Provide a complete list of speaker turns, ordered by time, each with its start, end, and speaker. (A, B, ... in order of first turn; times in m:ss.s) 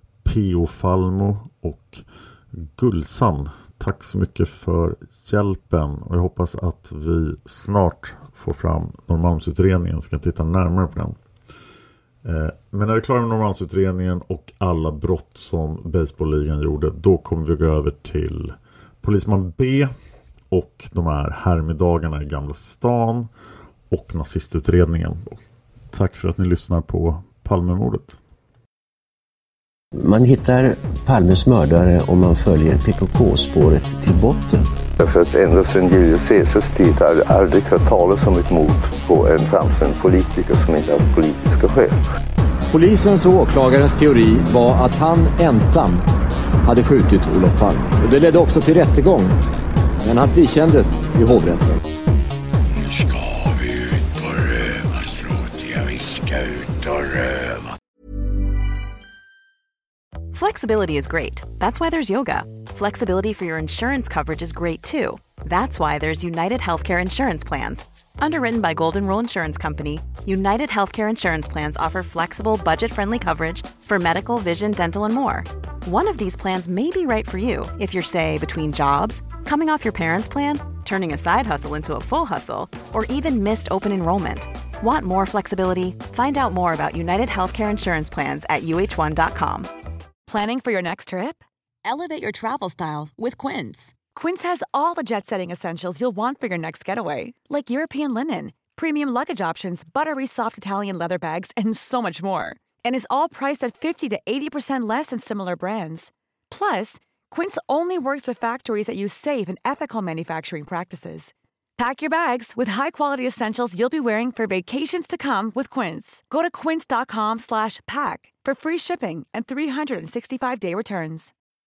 0:00.2-0:11.2 A
0:12.2-0:19.9 A
0:20.5-0:23.3 A
0:23.9-0:25.4 A
0:25.9-0:28.2 A
0:30.0-0:34.7 B
0:35.0-0:42.0 C
0:42.7-0:46.1 D
0:46.6-0:49.4 D
0:50.0-0:51.8 D
0:52.7-0:57.8 E
1:00.3-1:29.7 F
1:30.3-2:01.3 G